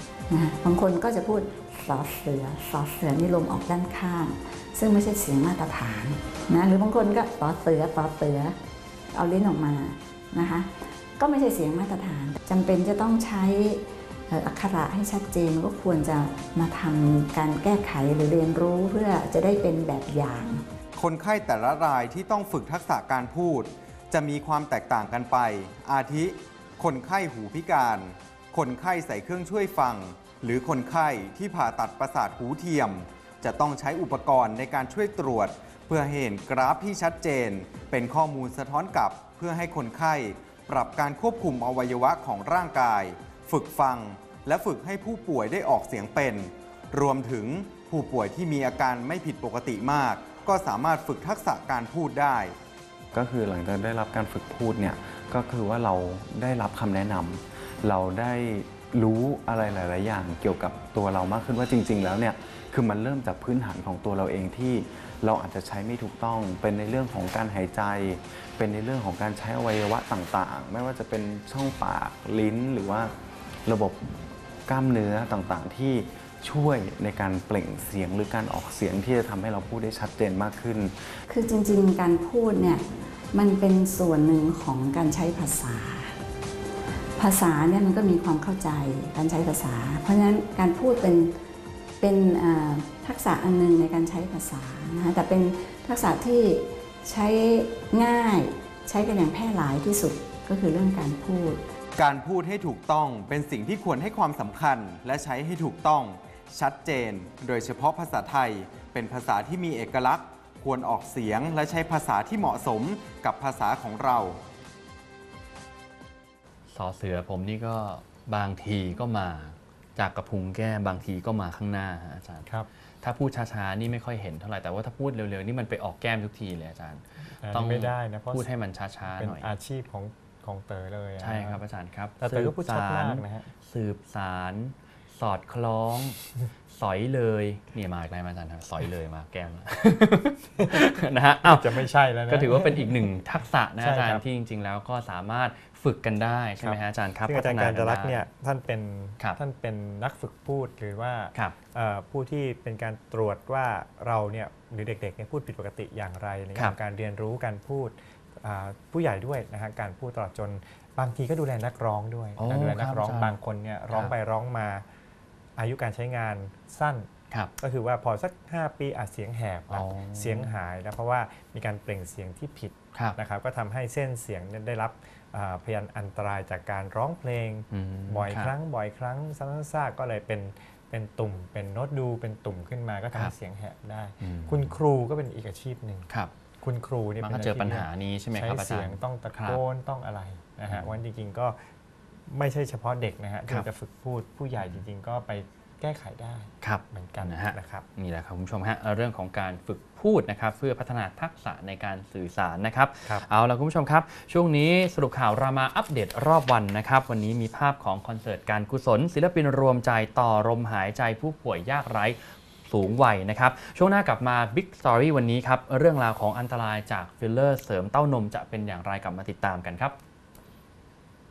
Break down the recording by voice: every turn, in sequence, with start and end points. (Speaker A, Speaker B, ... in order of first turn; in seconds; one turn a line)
Speaker A: 0.3-8.6
Speaker A: 9.1-20.7
Speaker B: 21.0-52.6
Speaker C: 53.1-73.1
Speaker C: 73.7-81.1
Speaker A: 81.3-86.2
Speaker A: 87.2-91.4
Speaker A: 92.0-101.6
Speaker B: 102.0-114.4
Speaker D: 116.7-122.5
Speaker D: 123.0-129.5
Speaker E: 127.4-128.5
Speaker E: 129.2-131.6
Speaker D: 131.2-136.2
Speaker E: 132.2-133.5
Speaker D: 136.7-148.2
Speaker E: 140.6-140.9
Speaker E: 141.4-143.2
Speaker E: 143.8-144.2
Speaker E: 146.6-164.8
Speaker D: 162.4-163.4
Speaker E: 165.6-186.1
Speaker D: 169.7-170.5
Speaker D: 177.7-178.5
Speaker D: 184.2-184.7
Speaker E: 186.6-191.6
Speaker D: 187.2-189.6
Speaker E: 192.3-197.9
Speaker D: 196.6-220.0